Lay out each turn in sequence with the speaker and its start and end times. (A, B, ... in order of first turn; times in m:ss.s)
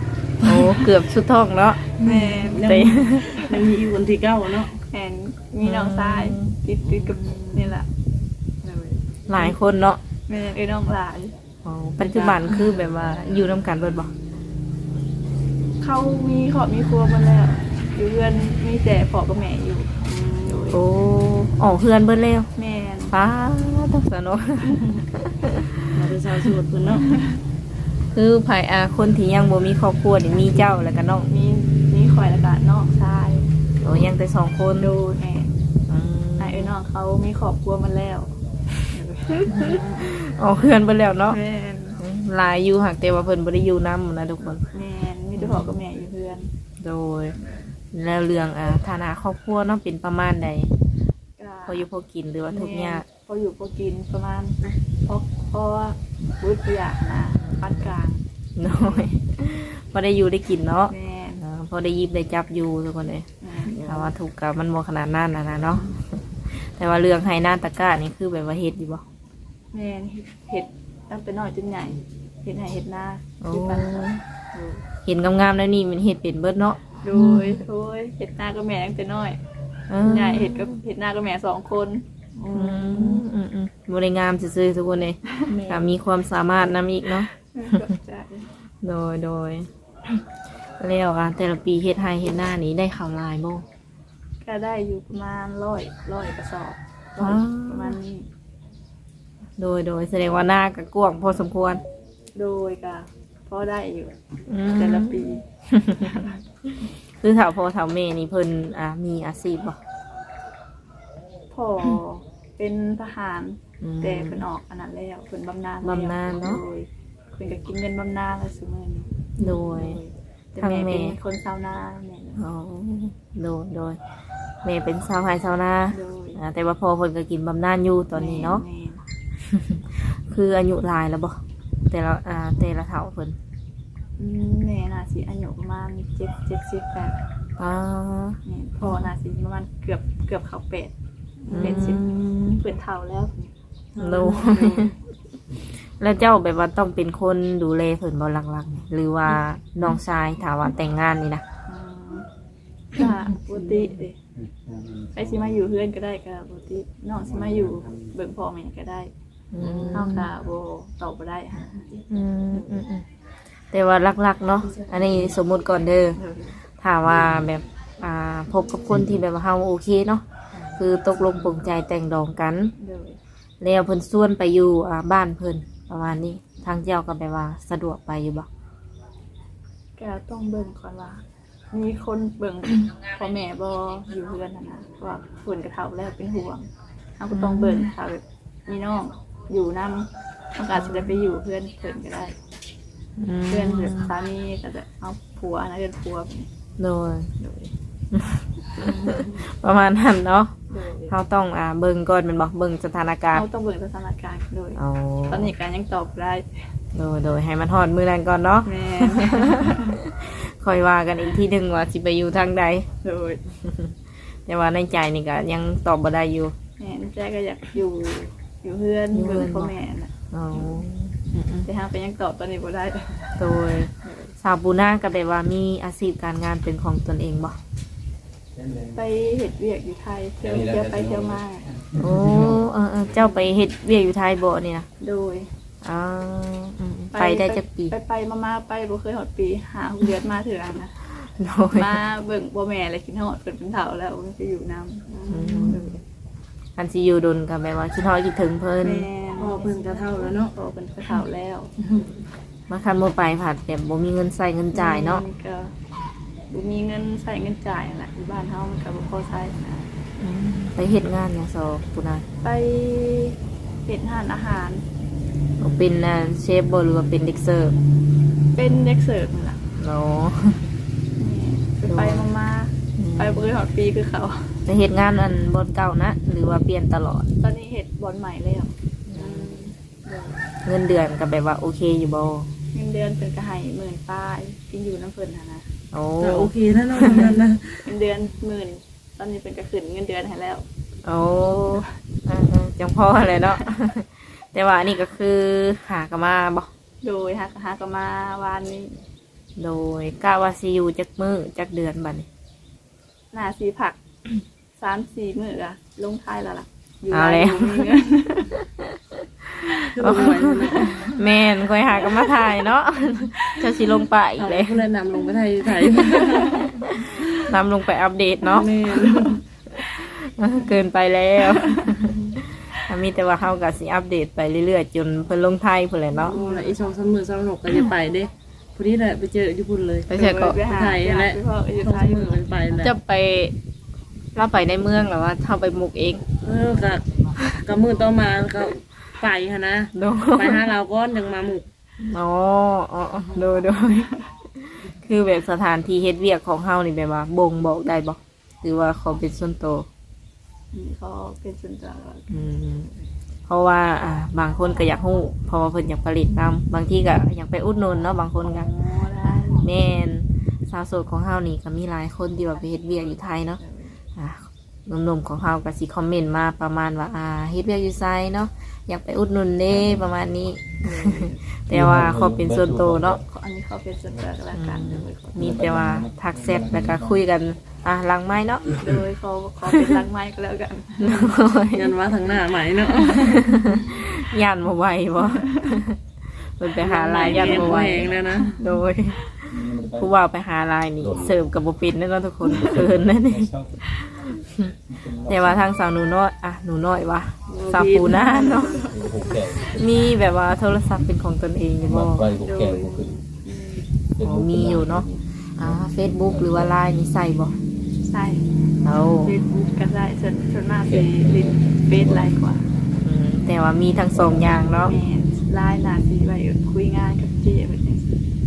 0:00.4-0:01.9 A
0:00.5-0:00.8 B
0:02.0-0:04.8 C
0:02.0-0:02.7 B
0:02.6-0:03.5 A
0:04.9-0:07.9 B
0:05.6-0:06.6 A
0:06.8-0:07.1 C
0:08.6-0:09.5 B
0:09.3-0:10.0 A
0:10.3-0:11.3 B
0:11.6-0:14.1 A
0:12.0-0:12.6 C
0:15.8-0:20.8 B
0:20.7-0:22.5 A
0:22.6-0:23.1 B
0:23.1-0:25.8 A
0:25.9-0:27.2 C
0:28.1-0:31.3 A
0:31.3-0:33.5 B
0:33.8-0:34.9 A
0:34.8-0:35.5 B
0:35.9-0:36.7 A
0:36.4-0:38.3 B
0:38.9-0:40.1 B
0:39.5-0:41.4 A
0:41.3-0:42.0 B
0:42.0-0:44.7 A
0:44.7-0:46.5 B
0:45.3-0:45.8 A
0:46.8-0:47.4 A
0:47.9-0:50.7 A
0:51.4-0:51.8 B
0:51.7-0:53.0 A
0:52.5-0:59.1 B
0:57.4-0:57.9 A
0:58.6-1:03.3 A
1:00.9-1:01.4 B
1:03.4-1:04.1 B
1:03.8-1:09.0 A
1:09.7-1:14.8 B
1:13.4-1:14.2 A
1:15.1-1:17.6 A
1:17.0-1:19.4 B
1:19.9-1:20.6 A
1:20.0-1:22.0 B
1:22.4-1:23.2 C
1:22.5-1:27.8 A
1:25.5-1:25.9 C
1:27.5-1:28.5 B
1:28.8-1:30.2 A
1:30.8-1:33.6 A
1:34.4-1:38.3 B
1:37.2-1:38.0 A
1:39.6-1:41.8 A
1:42.3-1:45.4 B
1:44.5-1:46.2 A
1:45.9-1:46.4 B
1:47.1-1:49.8 A
1:51.5-2:02.4 B
1:53.8-1:54.4 A
1:55.8-1:56.6 A
1:59.4-2:00.0 A
2:00.6-2:01.2 A
2:02.4-2:04.0 A
2:04.6-2:08.6 A
2:05.9-2:06.4 B
2:08.2-2:09.0 B
2:09.5-2:13.4 A
2:14.2-2:17.2 B
2:17.6-2:18.9 A
2:18.4-2:23.5 B
2:21.5-2:22.6 A
2:24.0-2:24.9 C
2:24.0-2:24.9 A
2:26.0-2:31.4 A
2:31.7-2:32.3 B
2:32.9-2:34.2 B
2:33.0-2:33.9 A
2:34.5-2:35.1 D
2:35.1-2:39.1 B
2:39.5-2:40.3 A
2:39.7-2:41.9 B
2:42.1-2:43.0 A
2:43.7-2:46.2 A
2:46.2-2:46.6 B
2:46.8-2:52.7 A
2:52.8-2:53.2 B
2:53.6-2:58.5 A
3:00.0-3:06.7 B
3:07.2-3:12.3 B
3:07.3-3:07.9 A
3:10.7-3:11.1 A
3:13.2-3:14.1 A
3:13.5-3:16.5 B
3:16.8-3:17.3 A
3:17.4-3:17.7 B
3:18.1-3:20.6 A
3:20.7-3:21.1 B
3:21.1-3:23.4 A
3:23.3-3:26.5 B
3:24.8-3:25.5 A
3:26.9-3:32.9 A
3:28.6-3:30.0 B
3:33.0-3:33.4 B
3:33.6-3:33.9 A
3:34.4-3:36.5 A
3:36.8-3:40.1 B
3:39.1-3:39.7 A
3:40.3-3:41.7 A
3:41.6-3:43.4 B
3:43.4-3:47.6 A
3:44.0-3:44.3 B
3:48.9-3:51.7 B
3:50.4-3:52.6 D
3:51.9-3:54.9 A
3:55.0-3:55.5 B
3:55.8-3:57.9 A
3:57.1-4:01.0 B
4:01.2-4:02.0 A
4:01.7-4:06.0 B
4:05.1-4:05.8 C
4:05.3-4:05.9 A
4:06.8-4:09.1 A
4:08.8-4:11.7 B
4:09.4-4:10.5 C
4:11.8-4:12.2 C
4:12.7-4:15.2 A
4:14.7-4:15.7 B
4:16.5-4:19.9 B
4:20.2-4:22.2 A
4:22.4-4:24.8 B
4:25.6-4:27.7 A
4:28.6-4:29.7 B
4:29.8-4:30.7 A
4:31.2-4:34.6 B
4:31.9-4:32.3 A
4:33.0-4:33.5 A
4:34.7-4:37.3 A
4:37.4-4:40.4 B
4:39.1-4:39.6 A
4:40.6-4:42.5 A
4:42.7-4:45.7 B
4:45.9-4:47.3 A
4:46.2-4:47.9 C
4:47.0-4:50.7 B
4:51.0-4:56.7 A
4:57.0-4:59.0 B
4:59.6-5:02.3 A
5:03.3-5:04.0 B
5:04.8-5:08.6 B
5:07.1-5:07.9 A
5:09.5-5:14.8 A
5:09.9-5:11.2 C
5:11.9-5:12.5 B
5:14.4-5:16.8 C
5:16.0-5:26.4 A
5:18.4-5:19.4 C
5:21.5-5:22.2 B
5:26.2-5:32.9 C
5:26.4-5:26.7 B
5:30.1-5:30.6 A
5:30.1-5:32.4 B
5:32.7-5:33.6 A
5:34.3-5:36.2 A
5:36.4-5:41.7 C
5:39.9-5:40.6 A
5:42.0-5:49.9 A
5:50.7-5:52.5 B
5:52.3-5:52.9 A
5:53.5-5:58.7 A
5:58.5-5:59.7 B
5:59.6-6:03.6 A
6:03.6-6:04.0 B
6:04.2-6:13.2 A
6:10.8-6:11.4 B
6:11.7-6:13.2 D
6:13.2-6:15.5 B
6:14.5-6:18.9 A
6:15.4-6:17.2 D
6:18.7-6:21.4 B
6:19.7-6:19.9 A
6:21.0-6:21.9 A
6:21.7-6:23.6 C
6:23.2-6:38.9 A
6:23.6-6:23.8 B
6:25.3-6:25.7 B
6:26.8-6:28.6 B
6:27.1-6:28.6 C
6:29.5-6:30.1 D
6:31.0-6:31.3 D
6:32.5-6:33.8 D
6:35.0-6:35.7 D
6:37.5-6:38.9 C
6:38.2-6:39.4 B
6:38.9-6:40.0 D
6:39.5-6:42.3 A
6:41.9-6:43.2 D
6:42.4-6:43.9 B
6:44.2-6:45.7 D
6:44.2-6:47.6 A
6:46.3-6:46.7 D
6:48.0-6:48.6 B
6:48.8-6:49.4 A
6:49.2-6:52.7 B
6:50.9-6:52.3 D
6:53.0-6:54.9 A
6:54.7-6:58.1 B